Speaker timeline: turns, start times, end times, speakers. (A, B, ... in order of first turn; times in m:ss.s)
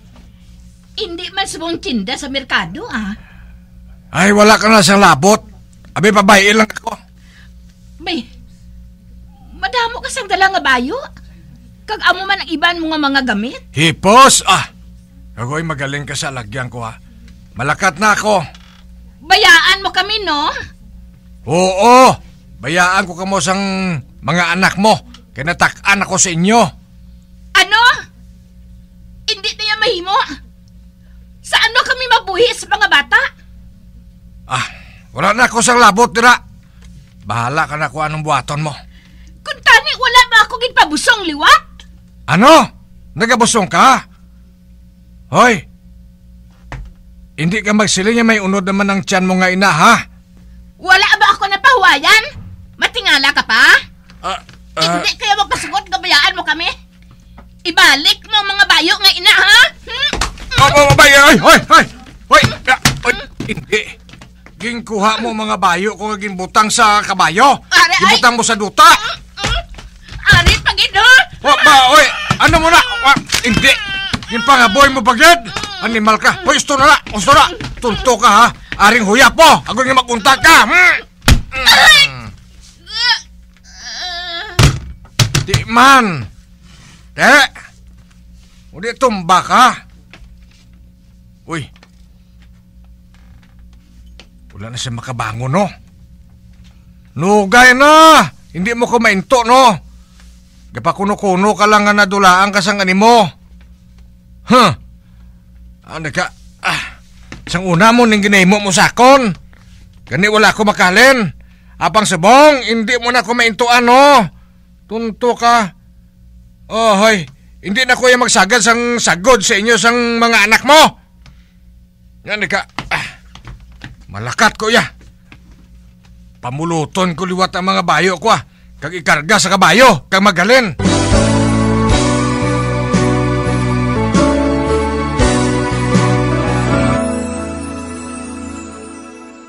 0:01.0-0:03.2 A
0:04.1-0:05.4 B
0:06.0-0:07.0 B
0:08.0-0:08.2 A
0:09.6-0:11.0 A
0:11.9-0:13.6 A
0:13.7-0:14.7 B
0:15.4-0:17.0 B
0:17.6-0:18.4 B
0:19.2-0:20.5 A
0:21.5-0:26.7 B
0:27.5-0:27.9 A
0:29.3-0:30.2 A
0:31.4-0:33.3 A
0:34.5-0:36.4 B
0:37.2-0:38.7 B
0:39.4-0:41.6 A
0:42.3-0:44.0 B
0:45.3-0:45.6 B
0:47.4-0:50.0 B
0:50.8-0:52.2 A
0:52.8-0:53.8 A
0:54.2-0:55.1 B
0:54.8-0:56.7 A
0:57.6-1:00.1 A
1:00.6-1:03.9 B
1:04.6-1:09.0 B
1:07.7-1:08.2 A
1:10.2-1:11.4 A
1:11.4-1:22.2 B
1:25.4-1:26.3 B
1:27.2-1:27.5 B
1:28.7-1:29.7 B
1:34.5-1:35.7 B
1:37.2-1:39.8 B
1:40.7-1:43.2 B
1:44.5-1:44.8 B
1:45.9-1:46.8 B
1:47.5-1:49.3 B
1:50.1-1:51.3 B
1:51.8-1:54.2 B
1:54.9-1:55.7 B
1:56.7-2:00.9 B
2:02.2-2:03.0 B
2:04.1-2:04.9 B
2:06.4-2:10.7 B